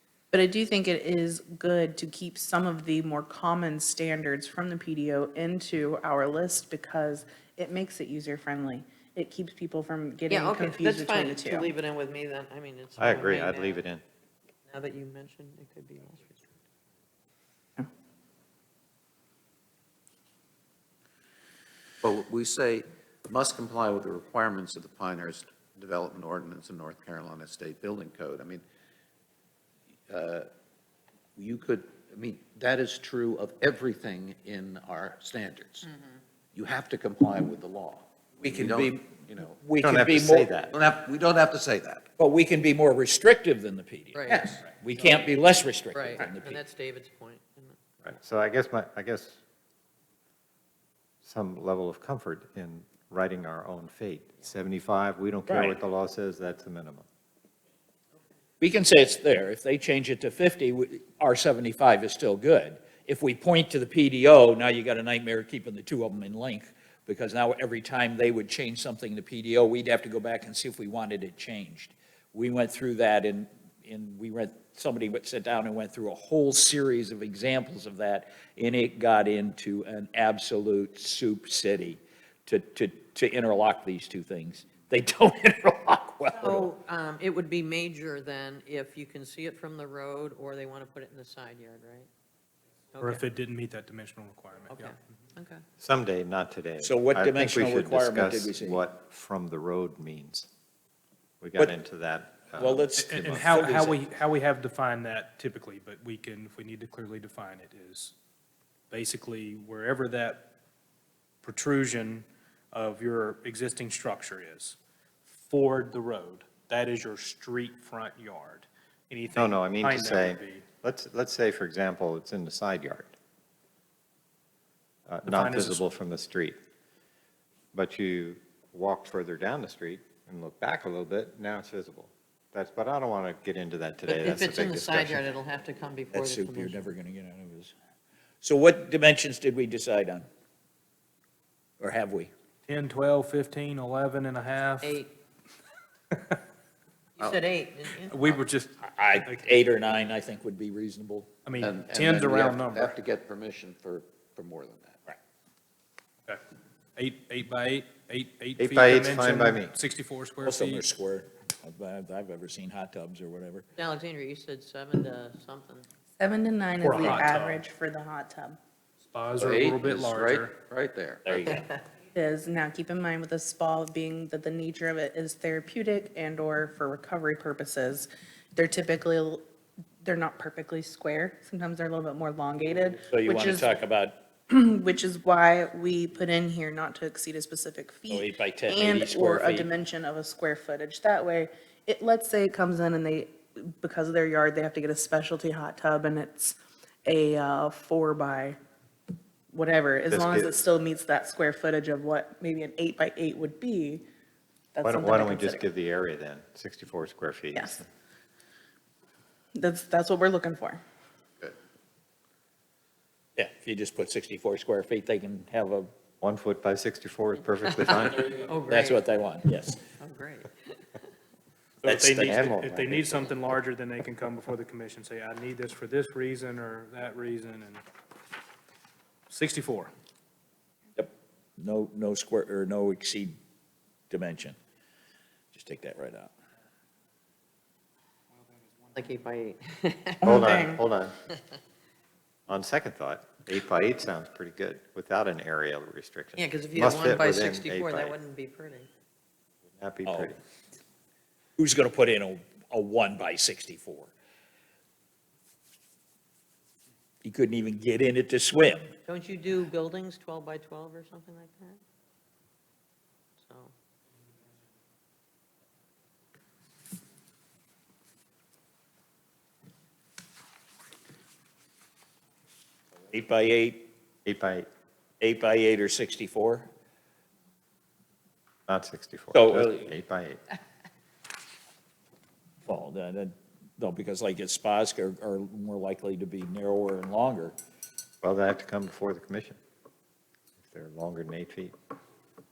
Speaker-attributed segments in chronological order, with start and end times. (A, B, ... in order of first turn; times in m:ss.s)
0:00.3-0:11.7 A
0:10.3-0:13.8 B
0:13.0-0:14.0 C
0:14.7-0:16.5 B
0:22.0-0:28.6 D
0:30.1-0:30.5 D
0:31.4-0:35.9 D
0:36.5-0:39.6 D
0:38.4-0:39.0 E
0:39.5-0:40.6 E
0:39.8-0:40.7 C
0:40.7-0:42.1 D
0:42.2-0:46.6 E
0:44.1-0:44.6 B
0:44.3-0:44.6 D
0:45.9-0:47.8 B
0:48.0-0:49.4 C
0:51.2-0:57.0 C
0:55.5-0:55.8 E
0:58.6-1:26.7 E
1:26.4-1:32.1 B
1:32.9-1:33.2 B
1:33.0-1:34.9 F
1:34.7-1:35.6 B
1:35.8-1:40.5 C
1:36.8-1:38.8 E
1:41.4-1:43.8 C
1:42.6-1:44.0 E
1:43.0-1:48.1 F
1:48.9-1:50.5 F
1:51.4-1:54.8 F
1:55.3-2:00.6 F
1:59.3-2:03.2 C
2:05.1-2:06.6 C
2:05.3-2:05.8 F
2:07.7-2:15.4 C
2:14.1-2:16.9 B
2:16.1-2:17.7 E
2:18.4-2:20.3 E
2:21.8-2:22.3 E
2:22.7-2:25.0 F
2:24.8-2:25.1 B
2:27.2-2:28.4 B
2:28.1-2:29.4 F
2:28.8-2:31.3 E
2:31.4-2:33.0 F
2:31.6-2:35.0 D
2:37.0-2:40.8 F
2:38.6-2:39.8 C
2:40.4-2:43.6 E
2:43.8-2:45.9 B
2:46.2-2:48.6 A
2:46.8-2:47.6 F
2:49.0-2:50.5 F
2:49.4-2:51.6 D
2:51.2-2:51.7 E
2:52.1-2:59.4 A
3:00.0-3:03.8 A
3:03.0-3:04.2 E
3:04.5-3:18.6 A
3:08.1-3:09.7 E
3:19.5-3:24.0 A
3:20.1-3:20.5 C
3:24.7-3:25.6 A
3:24.8-3:27.9 C
3:29.6-3:30.8 A
3:33.4-3:35.9 E
3:36.2-3:38.3 C
3:37.7-3:39.1 B
3:38.7-3:39.8 E
3:40.0-3:40.9 B
3:41.8-3:47.8 F
3:41.9-3:42.3 E
3:42.2-3:43.2 C
3:49.3-3:49.9 F
3:51.0-3:53.4 E
3:54.1-3:54.6 E
3:55.5-3:56.3 E
3:59.0-4:00.4 B
4:00.2-4:00.8 A
4:00.2-4:01.2 C
4:02.5-4:08.2 C
4:06.4-4:08.9 B
4:09.8-4:10.4 C
4:10.1-4:10.3 E
4:11.6-4:14.1 E
4:17.2-4:19.0 E
4:19.1-4:21.8 B
4:23.4-4:23.7 B
4:33.1-4:33.9 E
4:34.2-4:34.7 C
4:35.2-4:36.7 E
4:38.7-4:40.4 C
4:39.3-4:39.9 E
4:42.6-4:47.6 E
4:48.2-4:49.6 C
4:50.7-4:51.7 C